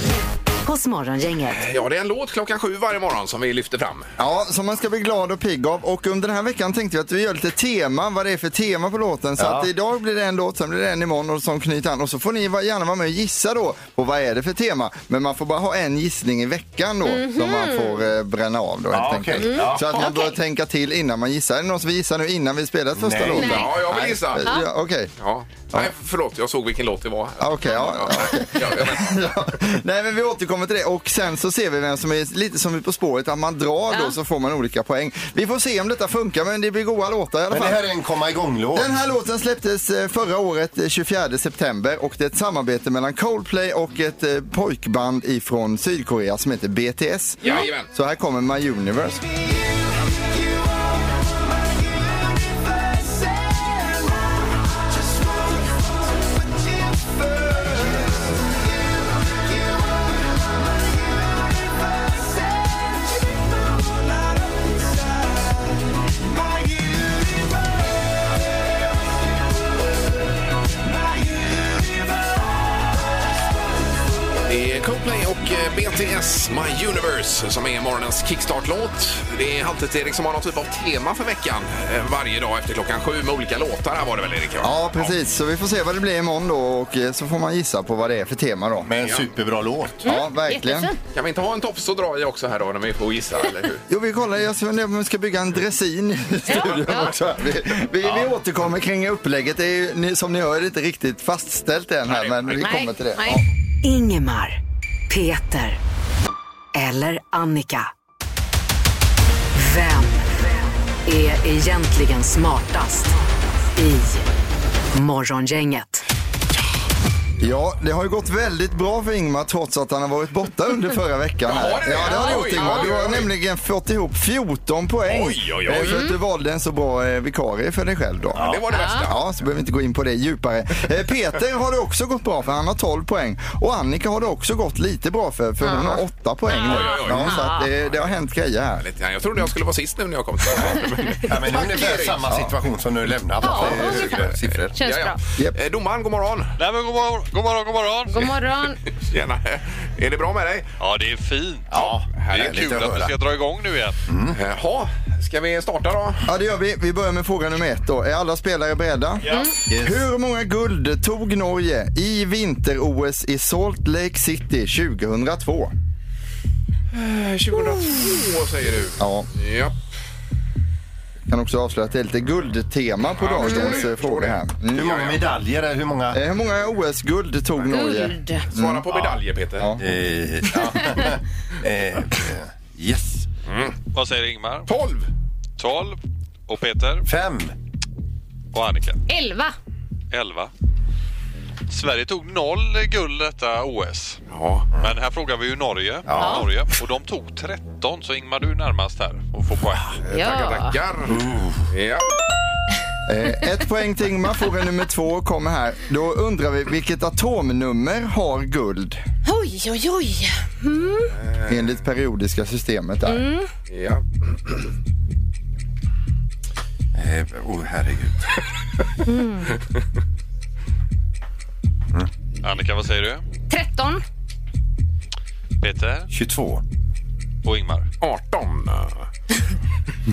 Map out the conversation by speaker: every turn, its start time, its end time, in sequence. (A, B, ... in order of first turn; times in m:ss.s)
0:00.6-0:01.6 A
0:01.5-0:04.1 B
0:04.2-0:25.1 C
0:09.4-0:09.7 D
0:17.0-0:18.0 E
0:18.9-0:20.1 D
0:19.4-0:20.3 E
0:23.0-0:23.5 D
0:23.3-0:23.7 E
0:23.4-0:24.5 B
0:24.4-0:24.7 E
0:25.2-0:29.3 B
0:27.4-0:37.8 C
0:27.6-0:28.0 E
0:37.5-0:38.9 D
0:38.7-0:49.2 C
0:47.4-0:47.9 B
1:14.5-1:25.1 B
1:24.6-1:28.9 C
1:28.8-1:30.0 D
1:29.0-1:29.3 B
1:30.0-1:30.9 C
1:30.0-1:31.0 E
1:31.1-1:33.8 B
1:33.9-1:43.4 C
1:36.5-1:37.1 E
1:42.1-1:42.7 B
1:42.6-1:43.4 E
1:43.8-1:44.6 A
1:45.1-1:45.8 A
1:46.7-1:47.9 A
1:49.5-1:50.5 A
1:51.0-1:53.1 A
1:53.7-1:54.3 A
1:54.9-1:56.0 A
1:57.4-2:18.8 C
2:01.5-2:03.3 B
2:02.0-2:02.9 E
2:05.1-2:06.0 B
2:05.8-2:06.1 E
2:08.3-2:09.2 B
2:08.7-2:09.1 E
2:15.6-2:17.7 E
2:16.6-2:17.4 B
2:18.8-2:22.4 B
2:21.2-2:24.7 D
2:23.4-2:25.2 E
2:23.4-2:26.5 B
2:26.6-2:28.3 F
2:28.1-2:28.8 E
2:28.9-2:30.7 B
2:30.8-2:34.0 F
2:31.7-2:33.1 D
2:31.7-2:33.1 B
2:34.1-2:34.4 D
2:34.3-2:36.3 B
2:36.2-2:45.7 C
2:39.7-2:40.0 D
2:46.9-2:49.7 B
2:49.0-2:49.3 C
2:51.3-2:55.0 C
2:53.2-2:55.2 B
2:53.4-2:53.8 E
2:54.7-2:56.2 D
2:56.1-2:58.9 C
2:57.7-2:58.4 E
2:58.5-2:59.7 B
2:59.6-2:59.8 C
2:59.8-3:03.3 D
3:03.5-3:03.8 B
3:03.9-3:04.7 F
3:04.7-3:05.1 B
3:05.6-3:07.1 F
3:07.1-3:07.5 D
3:08.5-3:09.0 F
3:09.1-3:09.5 E
3:10.1-3:10.5 F
3:11.7-3:14.2 F
3:14.3-3:14.7 B
3:14.8-3:20.0 F
3:16.0-3:16.5 D
3:16.2-3:16.5 E
3:20.0-3:21.2 B
3:20.1-3:20.8 E
3:21.1-3:21.6 D
3:21.7-3:22.1 B
3:23.1-3:29.0 C
3:29.2-3:31.1 E
3:31.1-3:31.7 B
3:31.5-3:33.2 C
3:33.0-3:33.5 E
3:33.7-3:34.7 B
3:36.9-3:38.4 D
3:39.0-3:39.5 E
3:42.4-3:43.2 F
3:43.5-3:44.0 E
3:45.6-3:46.1 F
3:46.1-3:46.6 D
3:47.4-3:47.9 F
3:48.0-3:49.0 B